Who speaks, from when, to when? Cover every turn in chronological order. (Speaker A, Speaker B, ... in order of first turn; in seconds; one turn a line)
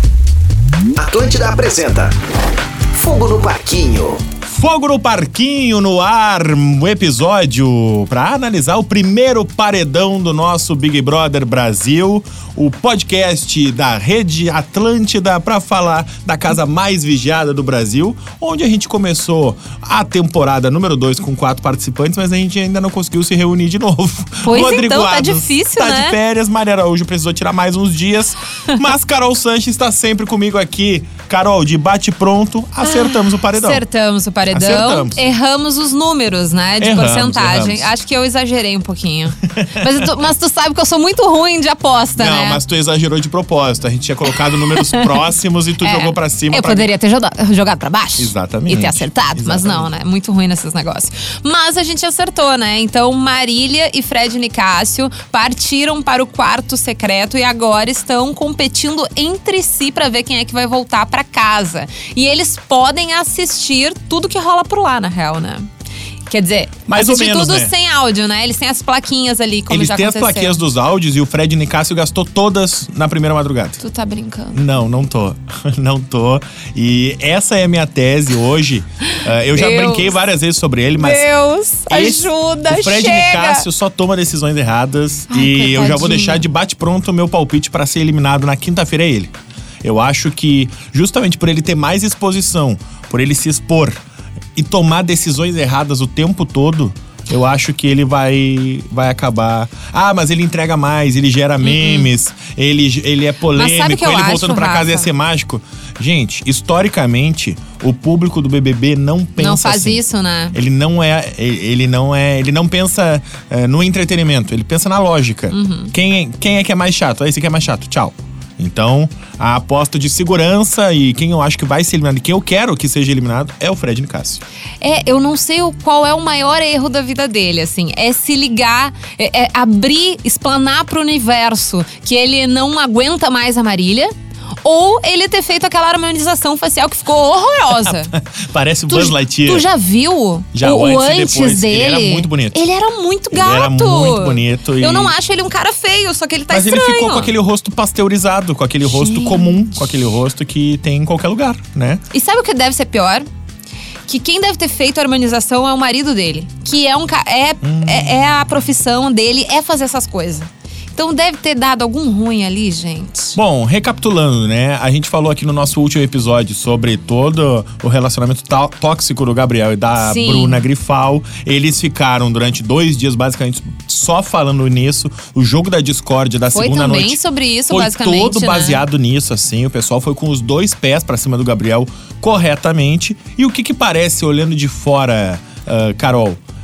Speaker A: 0.9-2.1
Speaker A: 2.9-4.2
Speaker B: 4.5-33.8
Speaker C: 24.4-26.2
Speaker C: 32.8-42.6
Speaker B: 34.5-35.2
Speaker B: 36.8-37.9
Speaker B: 39.6-40.0
Speaker B: 42.2-46.9
Speaker C: 44.5-45.2
Speaker C: 45.8-65.7
Speaker B: 48.2-49.9
Speaker C: 66.3-70.6
Speaker B: 66.9-67.7
Speaker B: 69.7-73.8
Speaker C: 73.8-74.6
Speaker B: 74.5-81.3
Speaker C: 79.5-80.2
Speaker C: 81.0-83.7
Speaker B: 81.8-89.3
Speaker C: 85.3-86.4
Speaker B: 89.8-94.0
Speaker B: 94.5-110.0
Speaker C: 101.6-102.1
Speaker C: 103.5-105.1
Speaker C: 109.4-110.6
Speaker B: 110.5-124.4
Speaker C: 115.5-115.9
Speaker C: 124.8-134.1
Speaker C: 134.6-138.1
Speaker B: 137.7-139.7
Speaker C: 138.9-147.3
Speaker B: 140.5-142.7
Speaker B: 143.3-145.1
Speaker B: 146.5-152.0
Speaker C: 148.8-149.7
Speaker C: 152.1-153.2
Speaker C: 154.1-163.4
Speaker B: 157.6-158.3
Speaker B: 163.3-186.4
Speaker C: 170.0-170.7
Speaker C: 176.5-178.8